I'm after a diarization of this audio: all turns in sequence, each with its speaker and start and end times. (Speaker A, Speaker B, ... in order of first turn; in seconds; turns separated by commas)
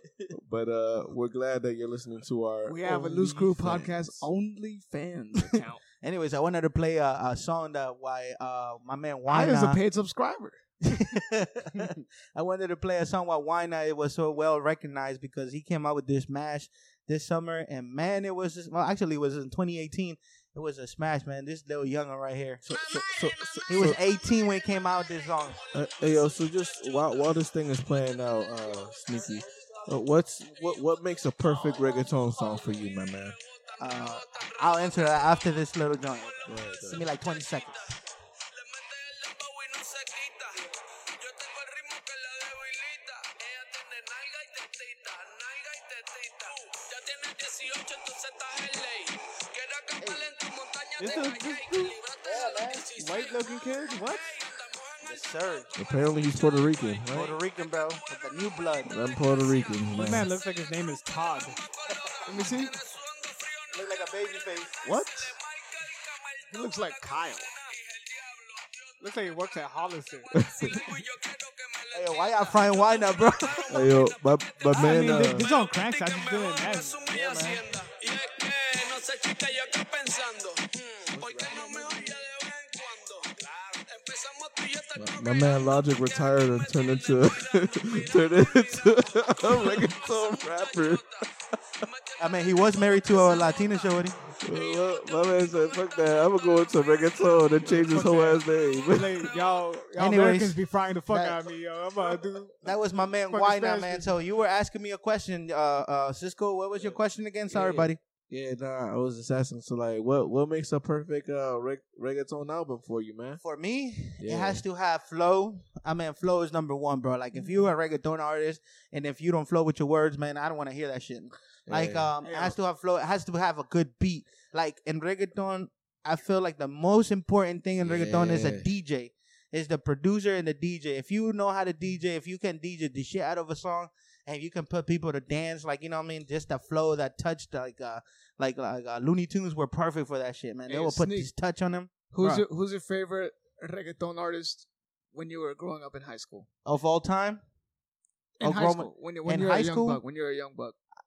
Speaker A: 0.3-4.2, Speaker B: 2.6-5.8, Speaker C: 6.0-9.8, Speaker B: 9.3-10.6, Speaker C: 10.8-22.6, Speaker A: 22.6-24.0, Speaker D: 22.7-24.1, Speaker C: 23.7-25.6, Speaker D: 25.6-29.8, Speaker A: 25.7-33.4, Speaker D: 30.6-57.4, Speaker C: 33.8-38.0, Speaker A: 36.5-37.1, Speaker C: 50.0-50.3, Speaker E: 51.0-52.0, Speaker C: 52.2-52.9, Speaker E: 52.9-54.3, Speaker C: 55.0-55.7, Speaker A: 55.8-57.3, Speaker C: 57.1-58.9, Speaker A: 58.9-60.3, Speaker D: 59.0-59.9, Speaker E: 59.9-61.6, Speaker D: 61.2-97.5, Speaker B: 62.2-62.7, Speaker C: 63.7-64.8, Speaker B: 64.8-65.2, Speaker B: 66.5-67.5, Speaker E: 69.0-70.3, Speaker A: 70.3-70.8, Speaker C: 71.9-73.8, Speaker A: 73.7-75.5, Speaker E: 74.7-77.0, Speaker C: 77.1-77.6, Speaker A: 81.1-81.9, Speaker A: 85.0-91.2, Speaker C: 92.2-94.2, Speaker A: 94.4-99.3, Speaker E: 97.7-102.6, Speaker D: 98.5-99.8, Speaker C: 100.0-101.4, Speaker C: 102.6-108.0, Speaker B: 103.3-104.1, Speaker B: 107.5-107.9, Speaker A: 108.3-113.4, Speaker C: 113.4-142.4, Speaker A: 114.2-114.6, Speaker A: 121.7-122.1, Speaker B: 122.2-122.6, Speaker A: 127.8-128.7, Speaker B: 140.7-141.3, Speaker B: 142.1-146.5, Speaker C: 146.6-147.4, Speaker B: 148.4-150.8, Speaker C: 148.4-150.0